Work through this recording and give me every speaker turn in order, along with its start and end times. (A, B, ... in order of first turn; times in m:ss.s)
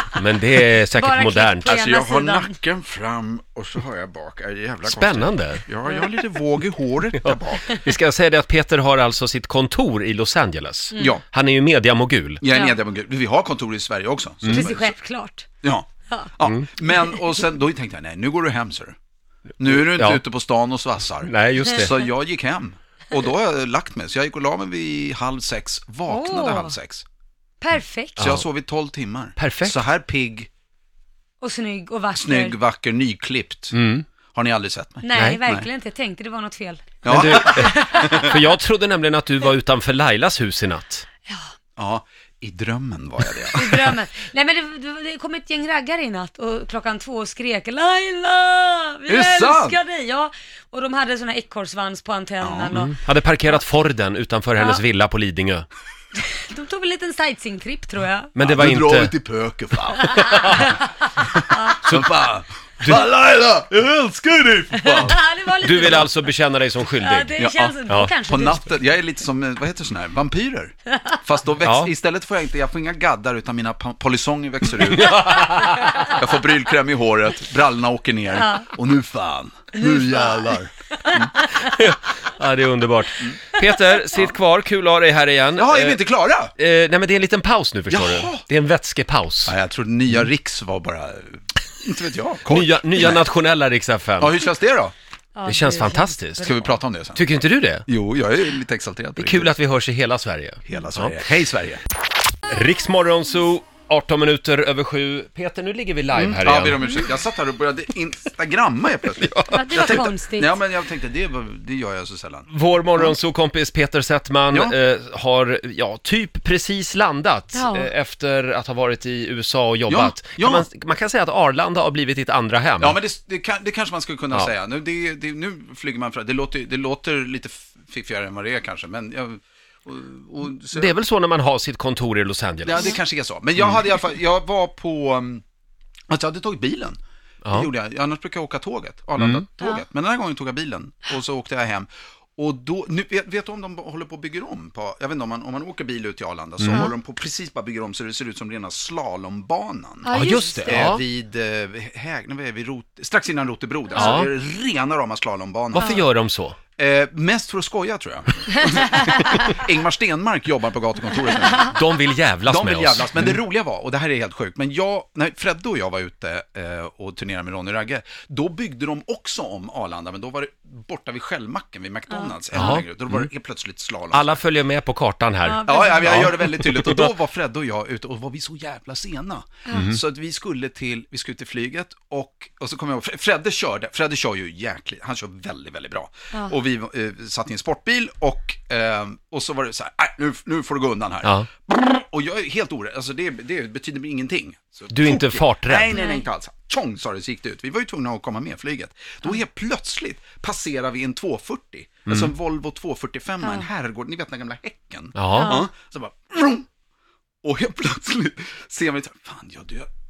0:00.1-0:01.7 A
0:00.9-0:02.5 B
0:01.6-0:07.7 C
0:04.8-0:05.6 A
0:07.2-0:12.4 A
0:12.4-0:14.9 C
0:14.5-0:15.4 B
0:15.6-0:19.0 C
0:19.6-0:27.0 C
0:19.6-0:20.2 A
0:21.2-0:21.9 A
0:26.1-0:26.7 B
0:27.6-0:28.2 B
0:28.2-0:30.5 C
0:28.2-0:28.4 A
0:29.4-0:29.8 A
0:31.4-0:32.6 B
0:32.2-0:33.8 C
0:33.7-0:34.0 A
0:34.3-0:35.7 C
0:35.0-0:38.3 B
0:37.0-0:38.4 C
0:37.1-0:41.0 A
0:41.3-0:41.5 B
0:41.8-0:43.9 C
0:43.5-0:53.0 B
0:49.1-0:49.8 C
0:52.4-0:52.8 C
0:53.0-0:55.6 A
0:54.6-0:54.8 B
0:56.2-0:58.3 B
0:58.4-0:59.1 A
0:58.4-1:00.7 C
1:00.0-1:00.8 B
1:00.3-1:00.7 A
1:01.2-1:05.2 C
1:01.8-1:02.1 A
1:04.8-1:08.8 B
1:05.6-1:08.1 A
1:07.4-1:21.3 C
1:11.6-1:11.9 A
1:14.9-1:16.0 A
1:18.4-1:18.7 B
1:19.8-1:20.4 B
1:21.1-1:21.6 B
1:21.6-1:26.0 A
1:24.1-1:24.4 C
1:25.6-1:26.5 C
1:26.6-1:29.5 A
1:27.9-1:28.4 C
1:29.4-1:33.2 C
1:32.5-1:34.3 A
1:34.2-1:34.9 C
1:35.3-1:36.7 B
1:35.4-1:36.5 A
1:36.4-1:37.2 C
1:37.1-1:37.8 A
1:37.8-1:39.5 C
1:39.2-1:41.3 A
1:40.6-1:41.8 C
1:42.5-1:46.8 A
1:46.1-1:53.2 C
1:49.2-1:50.0 A
1:49.5-1:50.6 B
1:52.5-2:03.0 A
1:57.5-1:57.9 B
1:59.9-2:00.7 C
2:02.8-2:10.9 C
2:10.7-2:13.0 A
2:12.6-2:15.4 C
2:16.1-2:17.0 C
2:17.5-2:36.0 C
2:19.2-2:19.4 A
2:26.6-2:26.9 A
2:30.0-2:30.7 B
2:30.1-2:31.0 A
2:34.0-2:34.3 A
2:35.7-2:36.6 A
2:35.8-2:36.0 B
2:36.8-2:41.8 C
2:41.6-2:43.4 A
2:42.4-2:54.3 C
2:52.5-2:53.3 A
2:54.1-2:57.1 A
2:55.4-2:56.3 B
2:55.6-3:26.6 C
2:59.7-3:00.0 A
3:14.9-3:15.9 A
3:15.9-3:16.2 B
3:22.1-3:22.3 A
3:25.2-3:25.6 A
3:25.3-3:25.6 B
3:27.4-3:29.9 C